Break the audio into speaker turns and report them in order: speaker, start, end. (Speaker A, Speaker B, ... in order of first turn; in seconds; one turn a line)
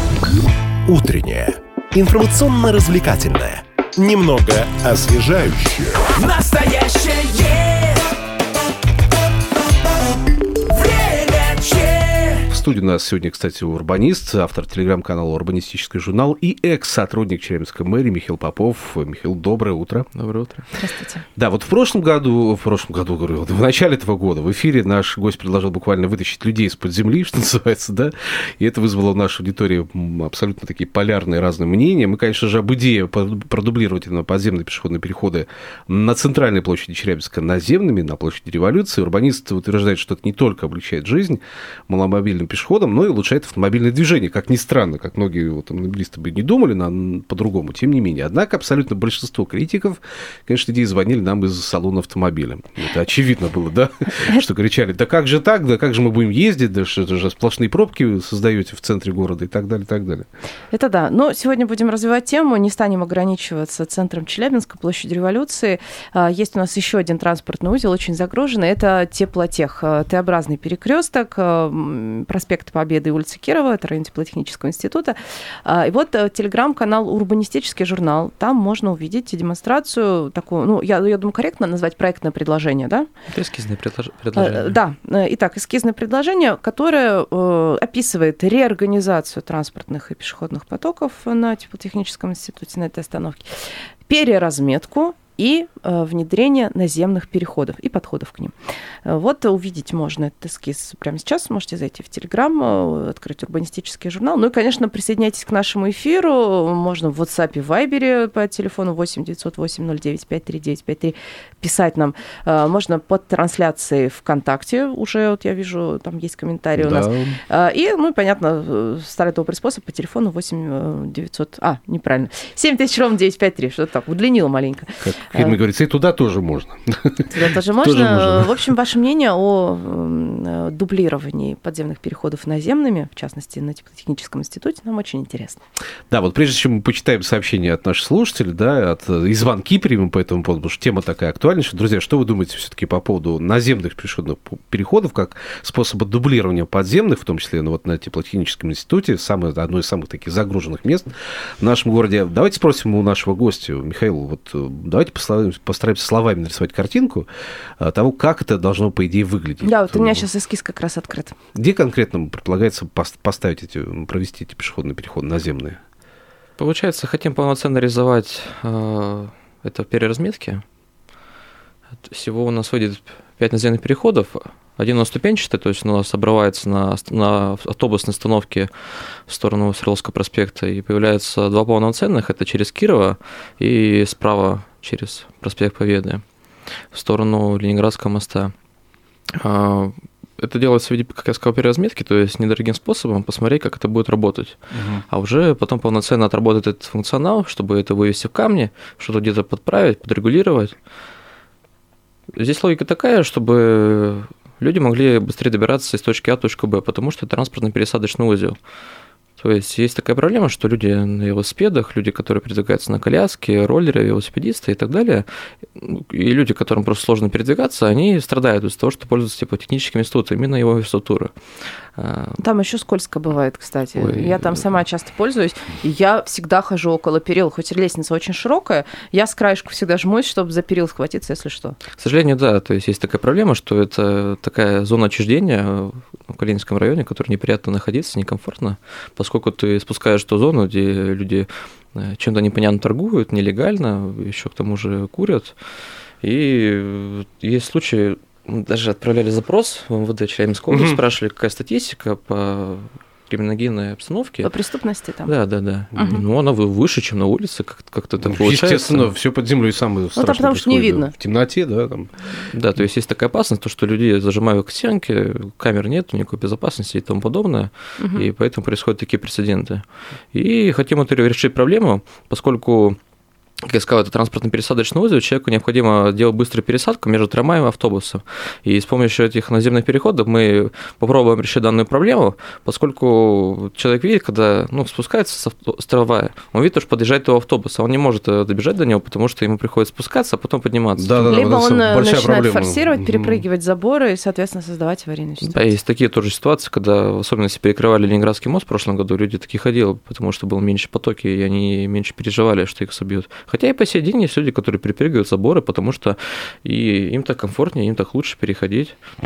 Speaker A: 0.8-8.0
Speaker A: 10.7-12.4
Speaker B: 12.5-20.1
Speaker C: 20.1-20.7
Speaker D: 20.8-21.2
Speaker B: 21.3-60.3
Speaker D: 60.7-83.1
Speaker C: 83.3-84.8
Speaker D: 84.3-93.4
Speaker D: 94.1-98.5
Speaker D: 99.0-125.6
Speaker B: 116.8-117.4
Speaker B: 125.0-128.7
Speaker D: 127.3-135.6
Speaker B: 136.1-157.3
Speaker B: 157.8-160.2
Speaker D: 159.6-161.4
Speaker B: 161.5-165.8
Speaker C: 166.6-170.6
Speaker C: 172.0-178.7
Speaker C: 179.3-186.2
Speaker C: 186.9-188.5
Speaker C: 189.3-200.8
Speaker B: 194.7-195.0
Speaker C: 202.3-208.6
Speaker C: 209.4-221.3
Speaker C: 221.9-222.4
Speaker D: 222.4-231.8
Speaker C: 223.9-224.7
Speaker C: 232.0-245.5
Speaker C: 246.2-254.5
Speaker B: 250.7-251.0
Speaker D: 254.4-255.3
Speaker C: 255.2-259.1
Speaker D: 256.0-256.2
Speaker B: 258.2-262.1
Speaker D: 260.1-261.1
Speaker C: 262.5-273.0
Speaker D: 268.0-268.3
Speaker C: 273.6-291.4
Speaker B: 291.0-293.4
Speaker D: 291.2-295.6
Speaker C: 295.4-308.9